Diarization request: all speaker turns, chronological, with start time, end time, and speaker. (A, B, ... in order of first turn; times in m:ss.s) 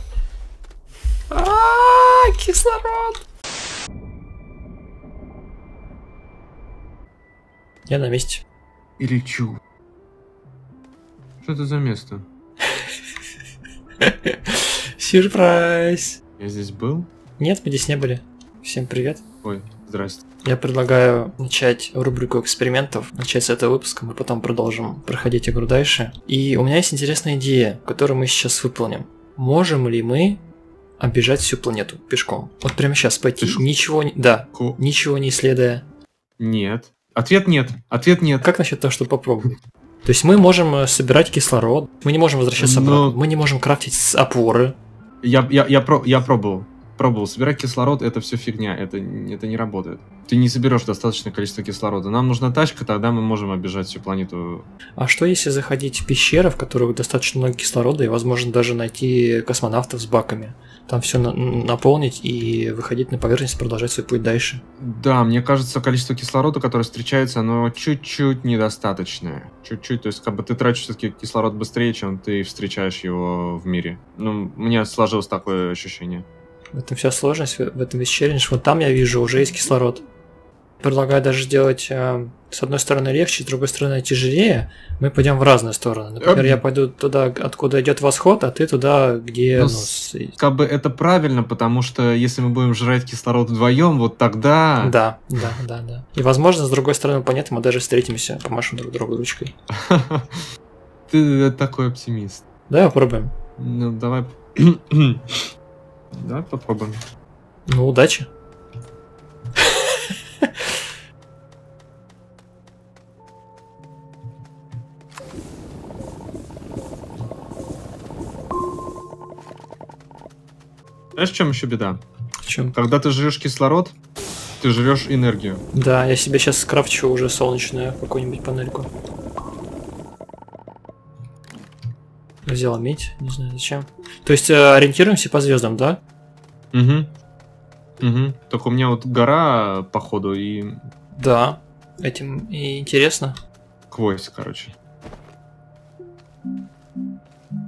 0:01.3-0:03.2 A
0:07.9-0:08.4 A
0:09.0-0:09.6 B
0:11.4-0:12.3 B
0:14.0-0:16.2 A
0:16.4-0:17.1 B
0:17.4-0:19.2 A
0:19.4-0:20.2 B
0:20.4-0:30.4 A
0:31.0-0:35.8 A
0:36.4-0:38.5 B
0:38.4-0:39.5 A
0:40.0-0:44.8 A
0:42.6-0:43.2 B
0:45.2-0:54.7 B
0:55.0-1:04.6 A
1:04.8-1:16.3 B
1:16.7-1:20.0 A
1:20.8-1:30.3 A
1:26.2-1:26.6 B
1:29.6-1:35.0 B
1:34.8-1:39.6 A
1:39.7-1:40.4 B
1:41.1-1:42.4 B
1:42.7-1:43.3 A
1:43.6-1:45.4 B
1:46.2-1:47.0 B
1:47.7-1:48.3 A
1:49.7-1:50.6 A
2:01.2-2:02.0 B
2:02.4-2:02.8 A
2:02.7-2:04.0 B
2:04.6-2:05.6 B
2:05.7-2:08.9 A
2:12.4-2:16.0 A
2:16.7-2:17.1 B
2:18.0-2:20.8 B
2:21.2-2:23.4 A
2:23.9-2:24.7 B